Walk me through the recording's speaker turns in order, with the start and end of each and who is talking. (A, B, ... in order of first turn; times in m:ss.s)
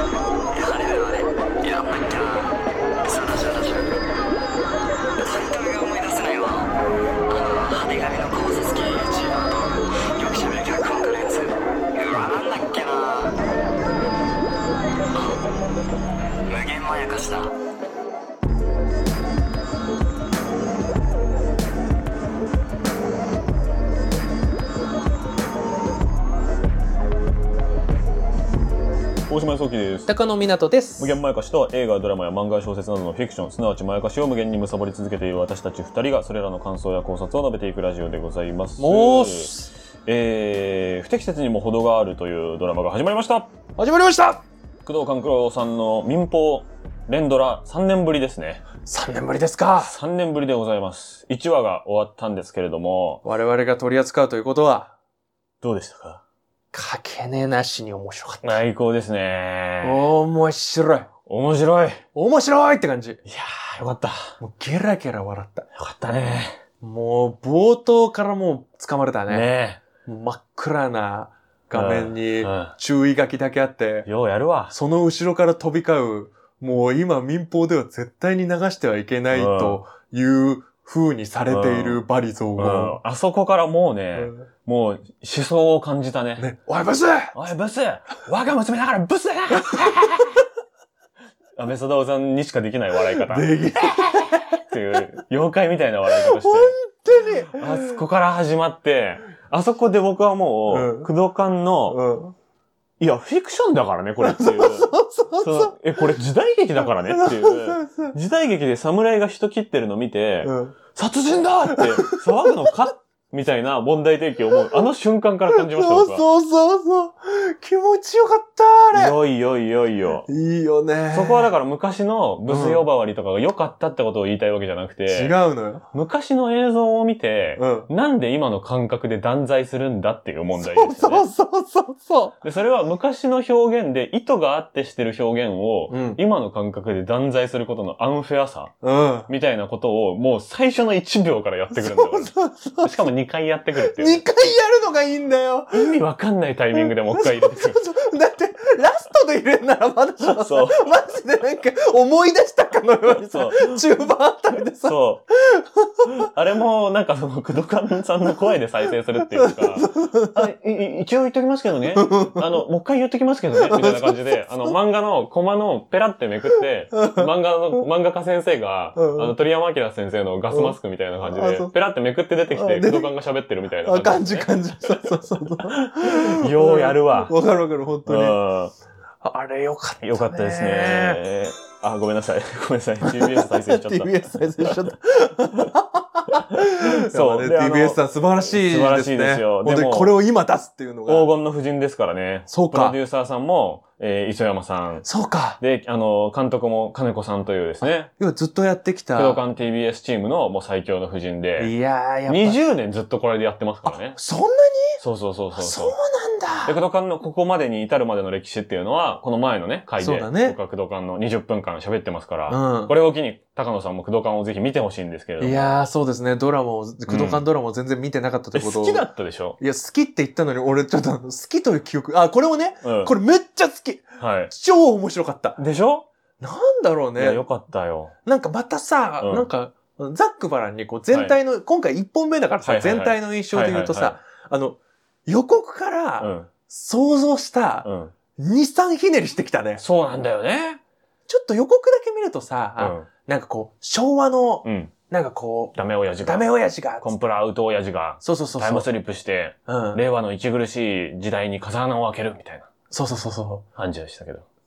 0:00.5-0:03.9 A
0:05.2-0:06.7 A
0:07.3-0:13.3 A
0:16.5-0:17.5 A
0:29.3-0:30.1 B
0:30.1-0:31.2 C
0:31.0-0:39.5 B
0:38.8-0:39.7 C
0:40.0-0:43.5 B
0:43.8-0:44.4 C
0:44.8-0:48.6 B
0:48.9-0:49.9 C
0:49.8-0:53.2 B
0:53.2-0:55.0 C
0:55.6-0:56.2 B
0:56.7-0:58.6 C
0:58.4-1:00.0 B
0:59.8-1:01.1 C
1:01.3-1:02.0 B
1:02.2-1:03.2 C
1:03.3-1:04.3 B
1:04.4-1:05.7 C
1:05.7-1:06.6 B
1:06.8-1:09.5 C
1:09.3-1:09.8 B
1:10.0-1:14.1 C
1:11.7-1:12.7 B
1:14.0-1:14.7 B
1:14.7-1:23.0 C
1:19.3-1:19.8 B
1:21.5-1:22.0 B
1:22.6-1:26.5 B
1:24.2-1:24.4 C
1:26.4-1:27.3 C
1:27.3-1:30.4 B
1:31.6-1:36.7 B
1:33.2-1:34.6 C
1:36.1-1:38.0 C
1:37.4-1:42.0 B
1:40.7-1:41.1 C
1:41.9-1:42.3 C
1:43.0-1:56.2 B
1:44.2-1:46.0 C
1:46.9-1:48.1 C
1:50.4-1:50.8 C
1:51.7-1:52.7 C
1:55.5-1:59.2 C
1:58.9-2:00.3 B
2:00.3-2:01.5 C
2:01.1-2:05.3 B
2:02.5-2:02.8 C
2:05.1-2:05.8 C
2:05.9-2:11.3 B
2:07.6-2:07.9 C
2:10.6-2:12.4 C
2:12.4-2:18.7 B
2:15.9-2:16.2 C
2:18.8-2:19.3 C
2:19.3-2:22.3 B
2:21.8-2:23.1 C
2:22.8-2:24.2 B
2:23.8-2:26.0 C
2:25.7-2:27.8 B
2:27.0-2:36.1 C
2:30.2-2:30.9 B
2:33.3-2:33.8 B
2:34.8-2:35.2 B
2:36.1-2:55.1 B
2:39.3-2:40.4 C
2:41.9-2:42.6 C
2:43.6-2:44.7 C
2:46.9-2:47.3 C
2:49.0-2:49.3 C
2:50.5-2:51.7 C
2:52.5-2:53.1 C
2:53.8-2:58.4 C
2:55.7-2:57.3 B
2:58.1-2:58.7 B
2:59.2-3:01.2 C
3:00.0-3:04.8 B
3:03.0-3:11.3 C
3:06.5-3:10.2 B
3:11.1-3:15.0 B
3:12.5-3:13.0 C
3:15.0-3:15.6 C
3:15.6-3:18.1 B
3:18.1-3:19.4 C
3:19.2-3:21.7 B
3:21.6-3:22.6 C
3:22.2-3:24.2 B
3:23.8-3:25.0 C
3:25.0-3:26.0 B
3:25.6-3:26.8 C
3:26.6-3:35.7 B
3:30.0-3:30.6 C
3:32.5-3:32.9 C
3:35.4-3:39.1 C
3:37.1-3:37.4 B
3:38.5-3:39.6 B
3:39.6-3:45.6 C
3:42.8-3:43.1 B
3:44.2-3:44.5 B
3:45.6-3:46.1 B
3:46.4-3:47.4 C
3:47.2-3:48.1 B
3:48.2-3:59.8 C
3:49.2-3:49.5 B
3:52.6-3:54.2 B
3:56.2-3:56.5 B
3:57.8-3:58.1 B
3:59.8-4:00.8 B
4:01.3-4:07.1 C
4:02.8-4:03.1 B
4:04.6-4:04.9 B
4:05.8-4:06.5 B
4:07.0-4:12.7 B
4:08.2-4:08.9 C
4:09.7-4:10.0 C
4:12.9-4:13.7 C
4:13.8-4:14.5 B